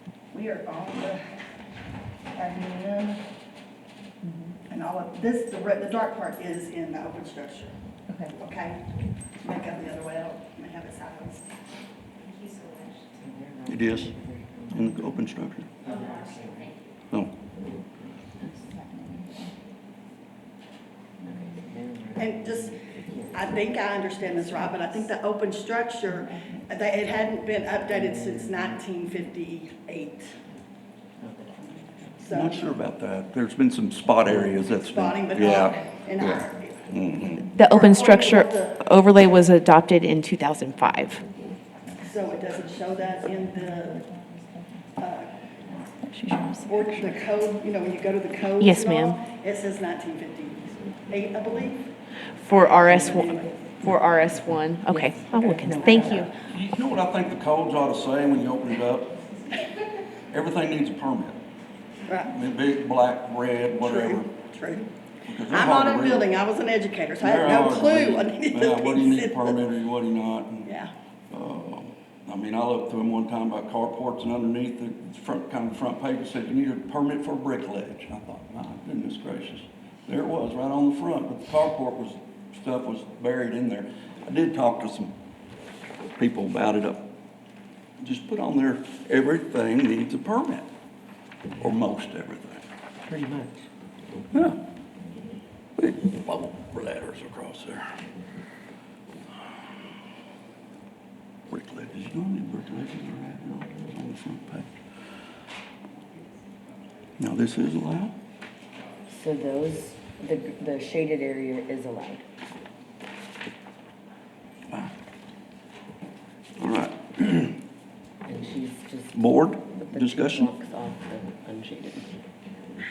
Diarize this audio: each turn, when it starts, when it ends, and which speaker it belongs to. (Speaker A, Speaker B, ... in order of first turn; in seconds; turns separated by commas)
Speaker A: 0.3-1.2, Speaker A: 2.3-3.2, Speaker B: 4.2-4.5, Speaker A: 4.7-7.7, Speaker A: 8.3-8.8, Speaker A: 9.4-11.4, Speaker C: 13.2-15.2, Speaker D: 13.7-14.1, Speaker D: 14.7-15.7, Speaker C: 15.8-16.7, Speaker B: 18.7-19.4, Speaker C: 21.2-23.7, Speaker A: 22.2-22.7, Speaker A: 23.3-30.3, Speaker C: 27.9-28.8, Speaker C: 31.2-32.0, Speaker A: 32.2-32.8, Speaker D: 32.3-37.5, Speaker A: 34.3-36.8, Speaker E: 37.5-41.2, Speaker A: 37.6-38.8, Speaker A: 42.0-44.1, Speaker B: 43.8-44.7, Speaker A: 45.0-45.3, Speaker B: 46.0-47.2, Speaker A: 46.7-51.9, Speaker E: 48.6-49.2, Speaker E: 52.5-56.3, Speaker A: 52.5-53.6, Speaker C: 54.9-56.3, Speaker D: 56.5-59.2, Speaker D: 60.3-61.4, Speaker A: 62.1-62.3, Speaker D: 62.3-64.3, Speaker A: 63.8-64.9, Speaker D: 65.3-66.3, Speaker A: 65.5-69.6, Speaker D: 67.2-70.7, Speaker A: 70.7-70.9, Speaker D: 71.3-85.1, Speaker D: 86.2-87.1, Speaker D: 88.0-90.7, Speaker D: 91.6-92.6, Speaker C: 93.1-93.7, Speaker D: 94.3-94.6, Speaker D: 95.8-97.8, Speaker D: 101.5-104.7, Speaker D: 107.2-108.1, Speaker C: 109.1-112.2, Speaker D: 116.6-117.6, Speaker C: 118.3-122.2, Speaker D: 119.1-120.5